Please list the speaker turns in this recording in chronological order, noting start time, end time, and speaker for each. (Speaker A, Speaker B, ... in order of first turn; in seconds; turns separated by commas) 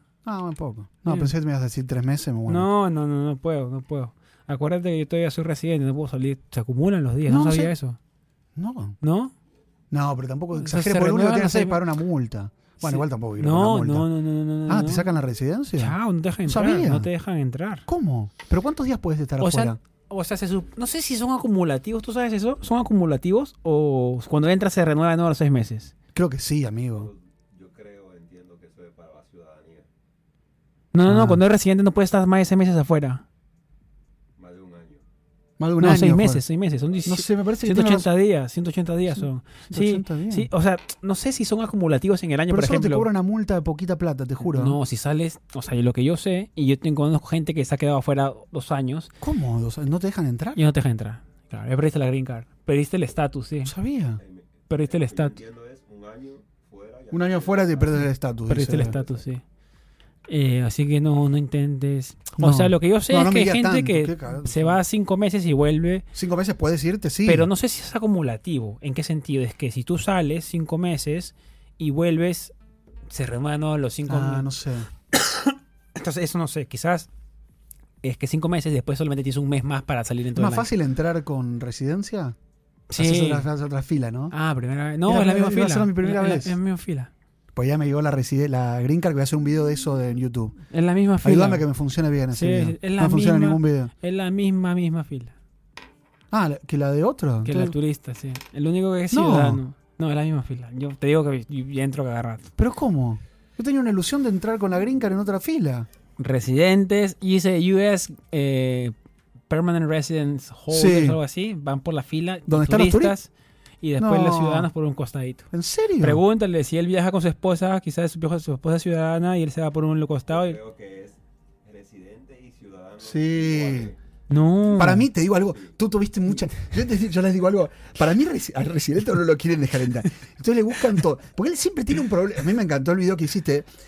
Speaker A: 0.2-2.7, Speaker B: 1.1-1.3, Speaker B: 2.5-8.0, Speaker A: 7.3-7.7, Speaker A: 8.6-9.0, Speaker B: 9.0-9.3, Speaker A: 9.9-14.1, Speaker B: 10.6-11.8, Speaker B: 12.8-15.1, Speaker A: 14.7-15.9, Speaker B: 15.8-17.9, Speaker A: 16.4-17.1, Speaker A: 17.9-19.8, Speaker B: 19.4-25.9, Speaker A: 26.1-27.1, Speaker C: 26.9-29.9, Speaker B: 30.9-33.2, Speaker A: 31.1-31.4, Speaker C: 34.4-35.0, Speaker A: 35.6-36.4, Speaker B: 35.8-43.1, Speaker C: 36.9-37.2, Speaker A: 37.0-38.1, Speaker A: 39.1-40.5, Speaker A: 42.5-44.8, Speaker B: 44.5-49.1, Speaker A: 49.2-50.6, Speaker B: 50.5-53.7, Speaker A: 53.6-54.2, Speaker C: 54.2-58.1, Speaker B: 54.7-55.4, Speaker A: 57.1-59.0, Speaker B: 58.5-59.4, Speaker C: 58.7-59.2, Speaker B: 60.3-66.0, Speaker A: 62.4-64.8, Speaker A: 66.1-67.5, Speaker B: 67.2-72.5, Speaker B: 73.1-74.5, Speaker A: 74.1-74.9, Speaker B: 75.1-77.1, Speaker B: 78.0-80.7, Speaker A: 80.4-82.4, Speaker B: 82.9-83.5, Speaker A: 83.0-84.3, Speaker B: 84.3-87.1, Speaker A: 85.0-86.5, Speaker A: 87.5-90.6, Speaker B: 90.7-91.7, Speaker A: 91.2-93.9, Speaker B: 92.3-95.3, Speaker A: 96.3-97.7, Speaker B: 97.5-102.5, Speaker A: 99.1-99.6, Speaker A: 102.6-105.9, Speaker B: 106.2-108.9, Speaker B: 109.5-120.6, Speaker A: 110.7-111.2, Speaker A: 112.5-113.1, Speaker A: 114.0-114.7, Speaker A: 115.5-116.2, Speaker C: 120.3-124.0, Speaker A: 123.0-123.9, Speaker B: 124.3-125.1, Speaker A: 124.8-133.7